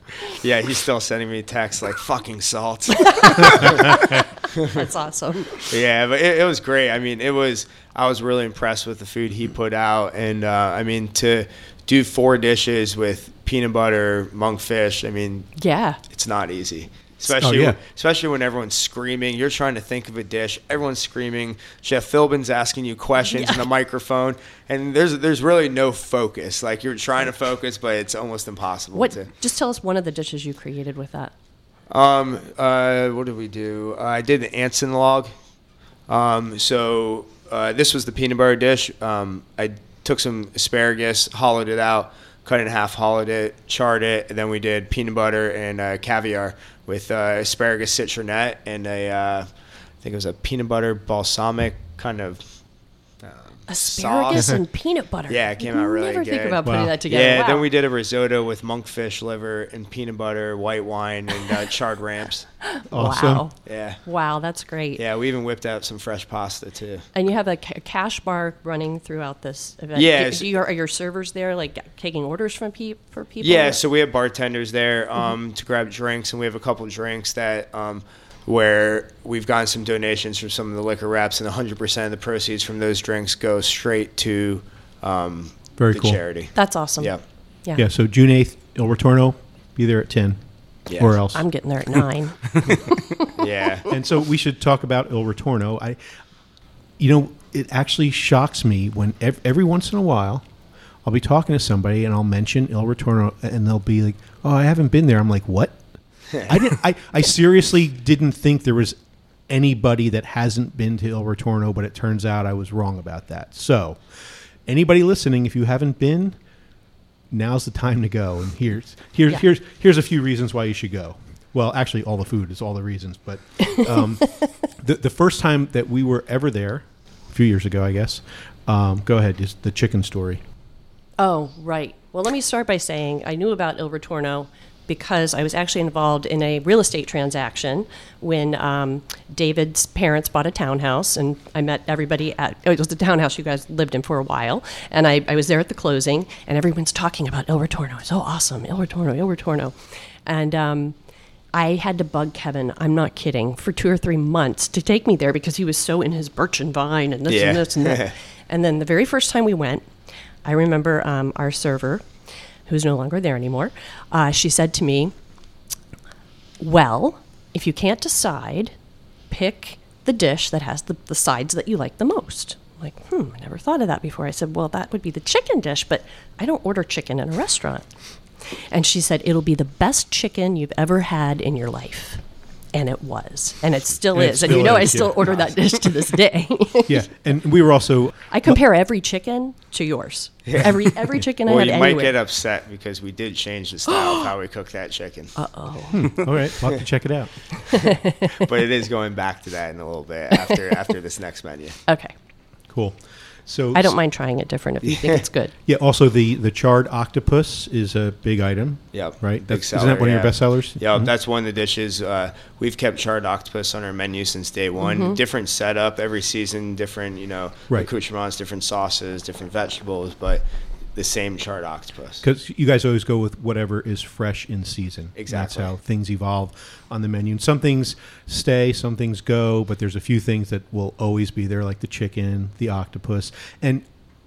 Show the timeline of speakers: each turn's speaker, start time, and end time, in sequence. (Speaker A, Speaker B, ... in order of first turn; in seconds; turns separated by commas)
Speaker A: 0.2-4.8, Speaker B: 3.0-5.6, Speaker A: 5.6-15.5, Speaker B: 15.6-16.0, Speaker A: 16.1-29.3, Speaker C: 17.3-17.8, Speaker B: 23.2-23.7, Speaker B: 28.9-31.3, Speaker A: 31.9-35.3, Speaker A: 36.1-52.5, Speaker A: 53.2-54.6, Speaker B: 53.7-57.7, Speaker A: 55.3-62.5, Speaker C: 56.6-57.0, Speaker B: 62.6-65.0, Speaker C: 62.9-63.4, Speaker A: 63.6-64.0, Speaker A: 65.0-67.0, Speaker B: 67.1-73.8, Speaker A: 69.9-70.6, Speaker A: 73.4-87.2, Speaker C: 85.8-86.2, Speaker B: 86.5-87.8, Speaker C: 87.7-91.4, Speaker A: 90.9-91.2, Speaker B: 91.3-93.0, Speaker A: 93.4-93.9, Speaker C: 93.9-96.0, Speaker C: 97.0-100.4, Speaker C: 101.0-109.0, Speaker C: 109.5-116.4, Speaker C: 117.3-130.4, Speaker B: 123.8-124.4, Speaker B: 131.2-150.9, Speaker B: 151.5-159.9, Speaker A: 157.3-158.1, Speaker B: 160.4-162.1, Speaker B: 162.7-165.1, Speaker B: 166.6-168.8, Speaker B: 169.3-182.2, Speaker B: 182.7-187.1, Speaker C: 184.1-185.2, Speaker C: 186.9-188.6, Speaker B: 188.3-192.2, Speaker A: 190.5-190.9, Speaker A: 191.4-195.3, Speaker B: 193.8-194.3, Speaker B: 195.3-196.2, Speaker C: 195.9-197.7, Speaker B: 197.7-198.5, Speaker A: 198.4-201.8, Speaker B: 201.9-202.1, Speaker C: 202.7-203.9, Speaker B: 203.7-205.5, Speaker A: 204.9-205.2, Speaker C: 205.6-211.1, Speaker A: 208.9-220.4, Speaker B: 214.8-215.2, Speaker A: 220.9-222.2, Speaker C: 222.2-233.8, Speaker A: 225.1-225.7